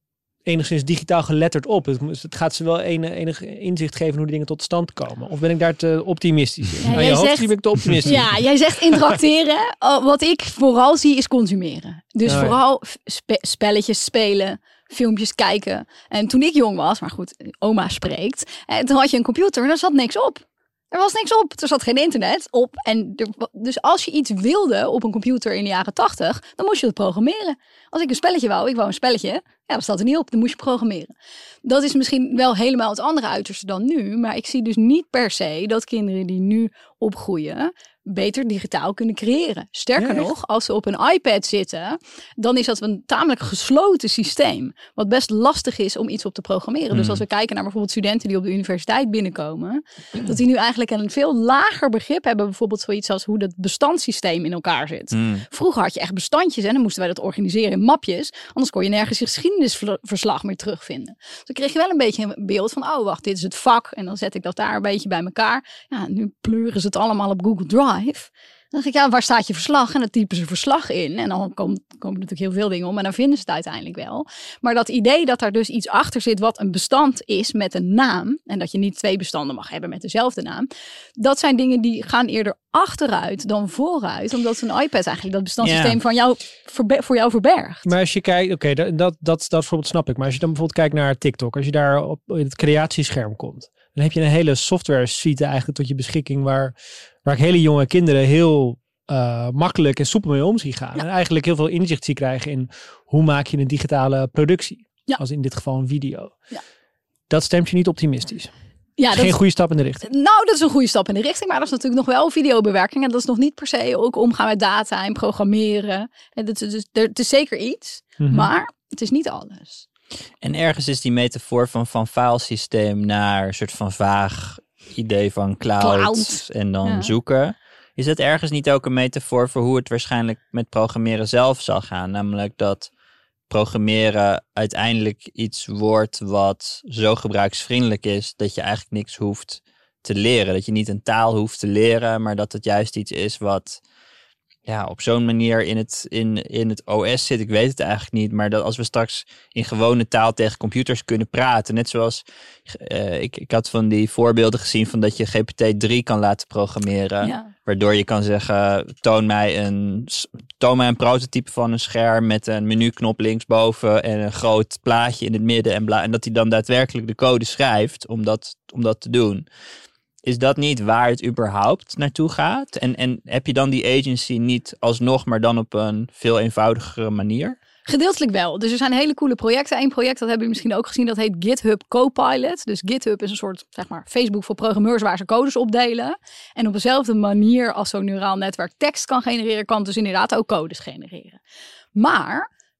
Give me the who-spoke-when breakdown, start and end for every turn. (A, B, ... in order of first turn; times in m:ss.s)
0:00.4-0:08.3 A
0:06.8-0:31.1 B
0:12.3-0:12.6 A
0:31.6-1:27.9 B
0:40.0-0:40.3 A
0:46.9-0:47.2 C
0:55.1-0:55.4 C
1:25.6-1:26.0 C
1:27.8-1:46.4 A
1:47.3-1:48.5 A
1:49.0-1:49.4 B
1:49.1-1:50.0 A
1:50.0-1:59.9 B
1:58.2-1:58.5 A
2:00.4-2:12.9 C
2:05.8-2:07.1 B
2:13.5-2:23.8 C
2:24.7-2:49.5 C
2:37.2-2:37.5 B
2:50.2-2:57.6 C
2:57.9-3:11.4 B
3:12.0-3:12.5 B